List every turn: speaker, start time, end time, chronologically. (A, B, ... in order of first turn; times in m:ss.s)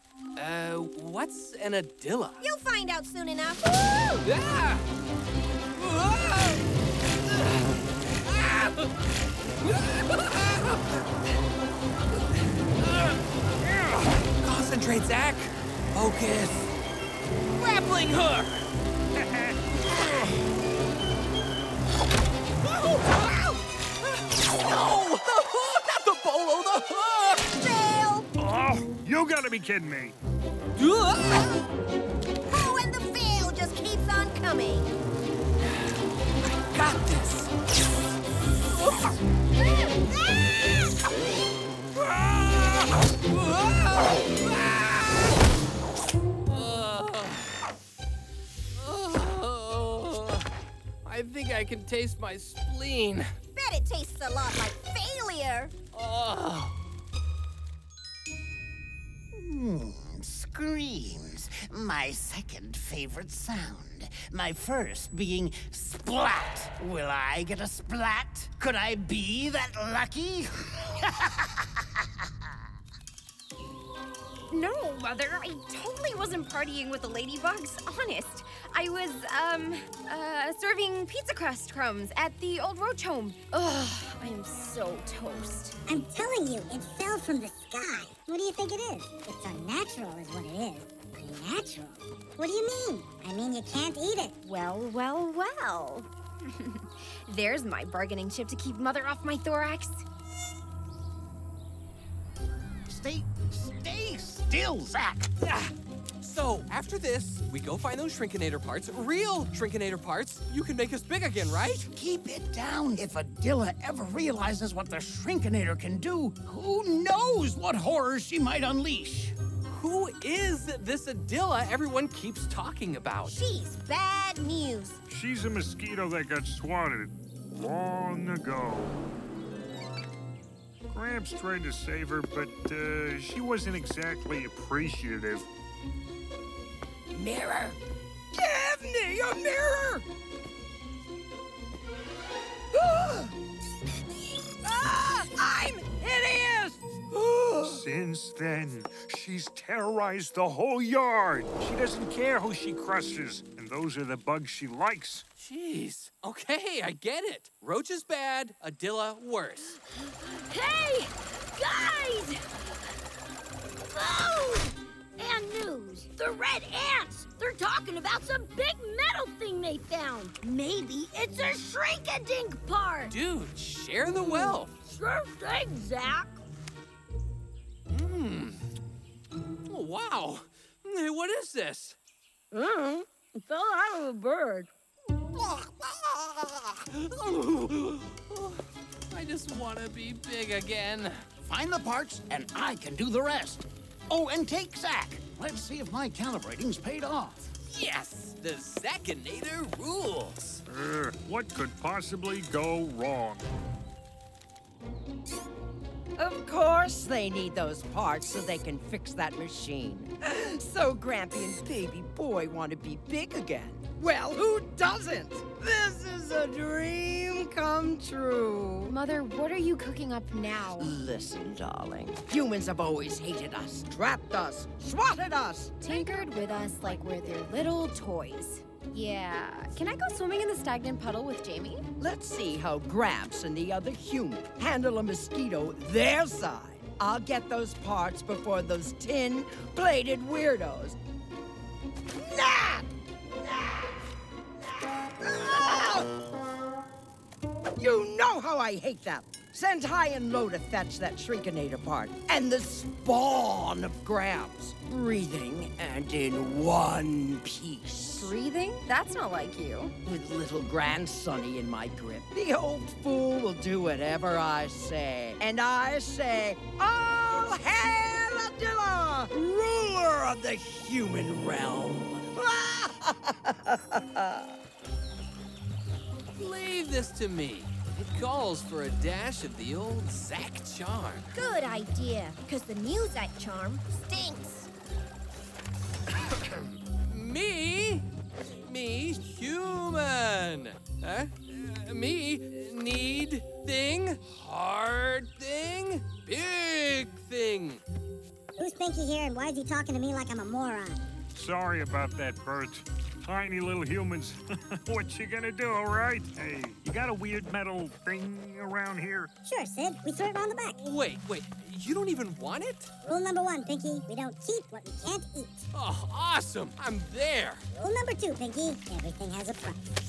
0:00.4-0:02.4 A
0:02.4-0:04.3 B
0:04.2-0:04.8 A
0:05.8-0:06.7 A
0:07.3-0:07.6 A
0:08.2-0:08.9 A
0:09.6-0:10.8 A
0:12.8-0:16.7 A
0:17.6-0:18.6 A
0:19.2-0:19.7 C
0:22.6-0:27.5 A
0:27.5-0:28.3 B
0:28.4-0:30.2 C
0:30.8-0:31.6 A
0:32.5-0:34.9 B
0:36.7-0:37.5 A
0:38.8-0:39.2 A
0:42.0-0:45.4 A
0:46.5-0:47.5 A
0:48.8-0:50.5 A
0:51.0-0:53.3 A
0:53.6-0:55.7 B
0:55.9-0:56.8 A
0:59.3-1:12.1 D
1:14.5-1:25.8 E
1:25.9-1:34.4 F
1:34.4-1:40.0 E
1:42.9-1:45.3 D
1:45.4-1:51.8 A
1:51.9-1:59.4 D
1:59.7-2:03.4 A
2:03.3-2:05.0 B
2:05.1-2:09.0 C
2:10.9-2:15.5 C
2:17.3-2:17.6 G
2:18.4-2:20.0 G
2:22.8-2:23.3 G
2:24.7-2:26.8 G
2:27.6-2:35.2 C
2:35.4-2:39.8 A
2:40.5-2:42.4 H
2:43.9-2:53.2 H
2:53.1-2:54.7 A
2:54.4-2:56.4 H
2:57.9-2:58.6 A
2:59.7-3:02.0 A
3:02.5-3:04.7 H
3:05.4-3:08.6 A
3:09.1-3:11.2 A
3:11.4-3:17.5 D
3:17.7-3:20.6 A
3:20.7-3:23.5 C
3:26.2-3:39.0 G
3:38.9-3:41.0 E
3:40.8-3:46.0 G
3:45.8-3:51.9 E
3:52.0-4:01.0 G
4:02.2-4:02.9 G
4:04.8-4:06.1 G
4:07.8-4:18.4 G
4:16.2-4:16.7 D
4:17.8-4:18.3 D
4:18.3-4:20.0 E
4:20.0-4:34.4 G
4:36.4-4:41.3 A
4:41.3-4:44.7 B
4:46.3-4:57.8 A
4:58.6-5:01.0 F
5:01.4-5:09.3 C
5:09.4-5:10.8 F
5:10.8-5:12.9 A
5:13.0-5:15.7 F
5:15.7-5:17.6 A
5:17.8-5:19.8 F